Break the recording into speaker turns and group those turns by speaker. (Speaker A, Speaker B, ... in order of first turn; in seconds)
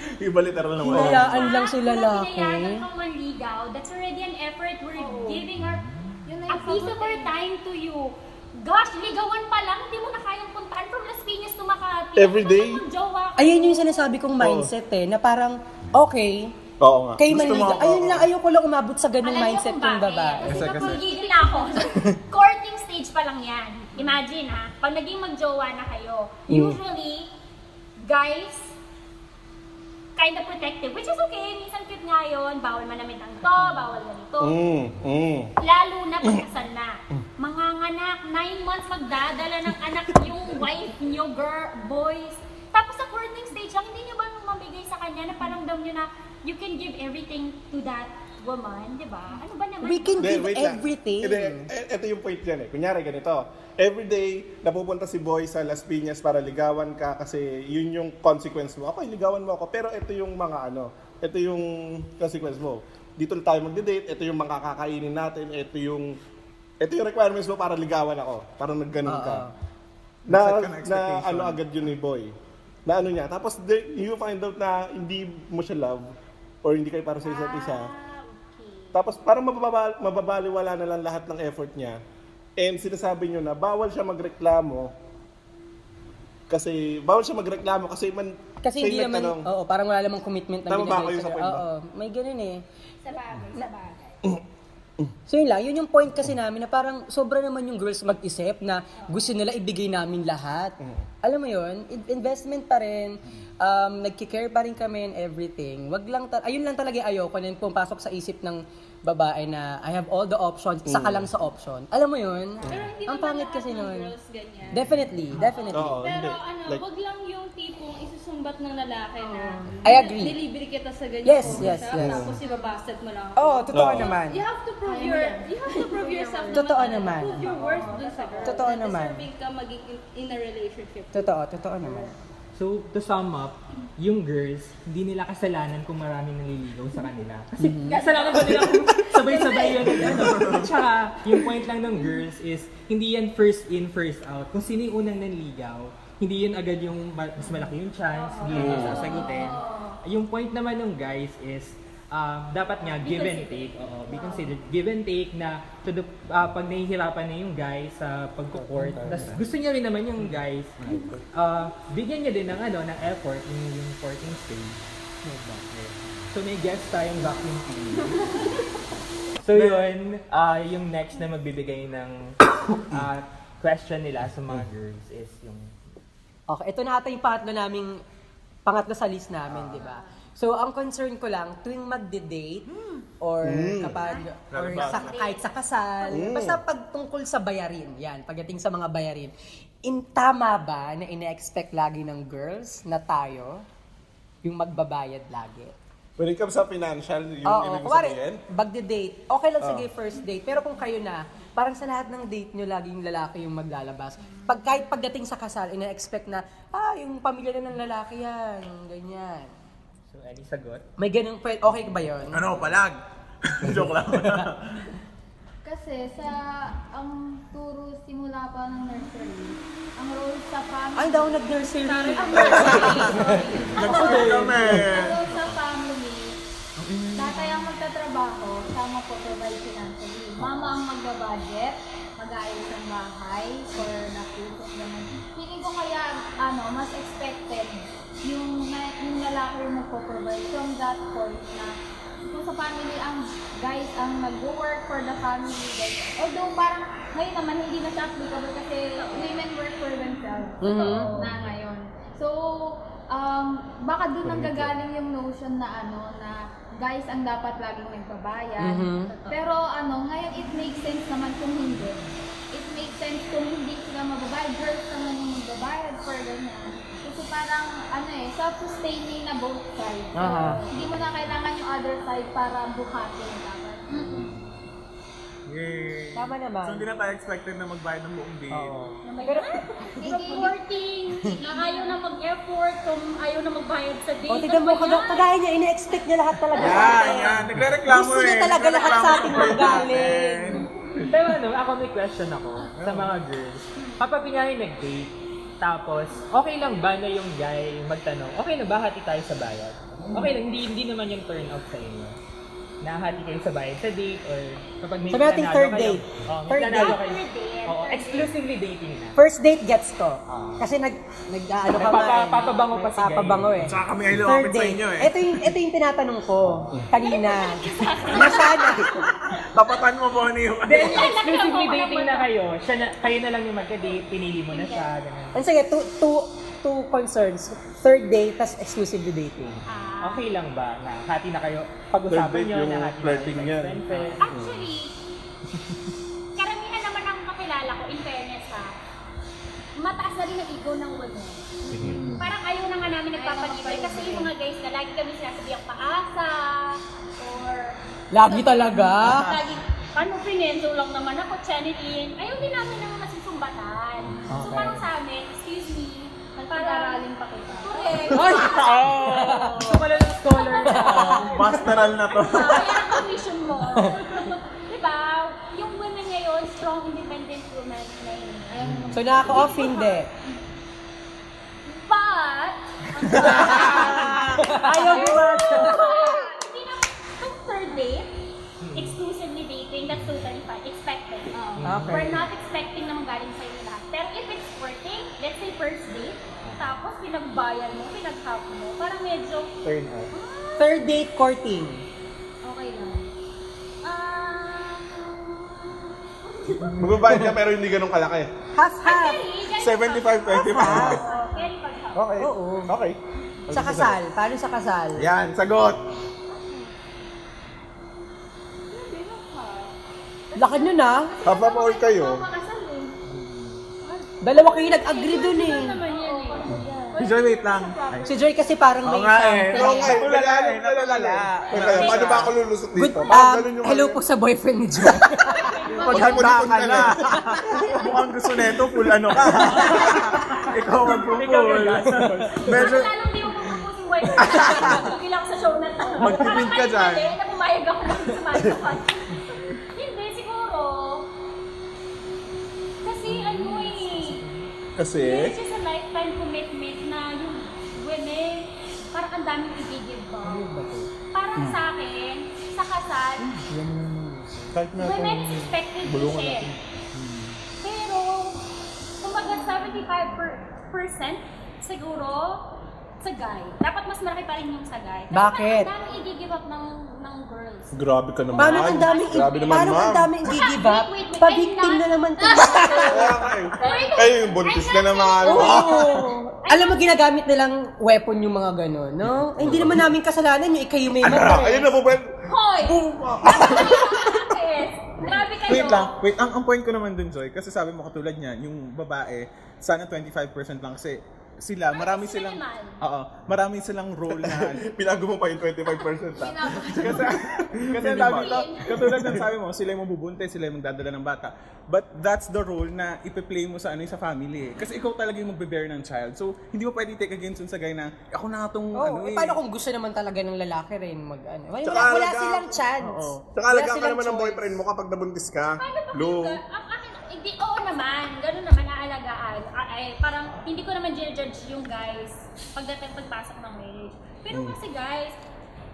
Speaker A: 0.2-1.5, 17.3-17.9, 20.4-20.9, 70.3-71.6, 140.1-140.7, 158.7-159.4, 160.8-161.2, 165.3-165.6, 184.5-185.1, 212.3-214.8, 223.7-225.6, 226.8-227.6, 230.4-230.7, 254.2-254.7, 270.8-271.1, 275.5-278.9, 286.5-291.1, 292.7-293.1, 313.6-315.5, 318.9-321.0, 341.7-342.1, 358.3-359.8, 360.9-362.9, 368.6-369.0, 399.5-401.0, 401.9-404.0, 404.9-405.9, 413.1-413.6, 417.0-418.1, 418.8-422.4, 425.7-432.9, 434.1-434.8, 436.0-437.1, 443.2-443.7, 453.2-457.4, 479.3-479.8, 485.4-494.7, 496.6-509.4, 512.8-513.2
Speaker B: 0.8-2.8, 13.4-16.6, 17.2-20.6, 26.5-26.8, 49.8-51.7, 69.0-69.5, 88.6-92.6, 95.3-114.1, 114.7-116.1, 119.8-120.4, 121.2-122.3, 123.3-124.4, 126.5-127.6, 128.4-129.2, 131.1-132.1, 137.6-138.0, 176.5-178.0, 178.7-182.7, 183.2-189.3, 189.8-193.6, 194.4-195.7, 197.4-209.5, 211.0-212.6, 214.2-214.5, 220.9-223.1, 223.9-224.8, 250.6-251.2, 258.6-259.1, 270.1-270.6, 276.1-276.8, 278.5-280.5, 284.3-290.6, 305.1-307.0, 309.1-319.0, 325.3-329.6, 348.1-349.4, 354.3-354.9, 358.1-359.8, 360.5-361.6, 368.9-370.1, 373.2-376.0, 381.6-382.3, 390.6-391.8, 398.5-399.2, 400.5-401.0, 402.2-402.7, 403.5-405.1, 410.4-411.1, 414.2-415.8, 418.1-420.0, 422.7-425.5, 429.2-429.9, 431.9-432.2, 465.1-465.7, 468.4-473.1, 475.2-481.8, 508.8-514.6
Speaker C: 0.8-1.3, 12.2-12.8, 14.4-14.7, 16.8-18.3, 34.4-35.5, 50.2-66.1, 66.8-69.5, 70.3-72.3, 72.8-76.1, 76.6-77.9, 78.9-82.0, 82.6-84.9, 86.5-89.5, 90.7-91.6, 110.9-111.3, 115.7-116.8, 121.5-122.3, 123.7-124.1, 148.6-149.0, 183.4-184.1, 186.1-186.6, 196.2-198.4, 199.6-199.9, 332.1-334.7, 396.7-398.3, 411.2-412.2, 419.5-424.0, 425.8-427.3, 444.8-445.4, 467.7-470.1, 472.6-476.1, 479.4-479.7, 481.3-484.1, 494.1-499.3, 511.6-512.6, 513.2-516.4, 524.3-524.6
Speaker D: 1.2-5.8, 6.5-14.1, 19.2-27.3, 28.0-28.8, 30.2-34.6, 35.6-50.4, 77.2-79.1, 93.0-94.1, 127.9-128.4, 148.4-149.6, 152.8-154.4, 184.0-185.4, 221.8-224.0, 248.9-249.4, 250.7-251.3, 259.1-259.4, 273.9-274.3, 279.0-285.3, 286.6-287.1, 293.8-294.0, 306.7-308.3, 317.0-319.2, 320.7-322.3, 324.5-324.9, 329.6-330.2, 334.2-335.0, 336.4-338.7, 339.8-341.5, 342.1-346.8, 349.0-357.0, 357.6-358.9, 360.3-361.2, 362.1-368.5, 369.2-369.9, 371.6-378.1, 378.7-389.5, 390.1-390.8, 393.8-396.7, 398.8-402.0, 415.6-416.5, 421.7-422.2, 425.2-426.3, 432.4-441.1, 442.8-444.2, 444.9-450.5, 451.1-453.3, 454.8-456.5, 457.6-458.4, 459.0-467.7, 468.3-476.9, 482.2-485.9, 491.7-492.8, 498.0-498.7, 515.6-525.2
Speaker E: 5.0-5.4, 6.2-7.3, 20.5-21.9, 119.2-119.9, 122.4-122.7, 124.8-128.7, 139.2-139.5, 148.5-149.7, 154.1-154.4, 215.6-226.3, 227.1-241.7, 242.2-262.0, 262.5-274.3, 280.0-280.5, 281.4-281.9, 341.6-342.2, 343.1-344.3, 347.2-347.6, 356.4-358.2, 368.5-370.0, 373.0-374.1, 374.9-376.2, 381.4-381.6, 392.4-393.0, 400.7-401.5, 410.3-412.9, 415.8-417.2, 425.7-426.1, 472.3-472.9, 473.6-473.9, 496.1-497.1
Speaker F: 20.9-21.3, 112.7-131.3, 138.0-139.7, 148.4-149.6, 408.7-409.7, 414.0-418.3
Speaker G: 132.5-164.8, 165.7-168.6, 169.4-175.7, 210.1-210.8, 223.9-224.5, 291.1-302.2, 302.8-309.2, 310.3-310.6, 311.7-313.6, 320.6-325.4, 330.0-334.2, 359.4-361.2, 378.6-379.0, 381.6-382.0, 389.6-390.1, 431.1-432.3, 450.2-450.9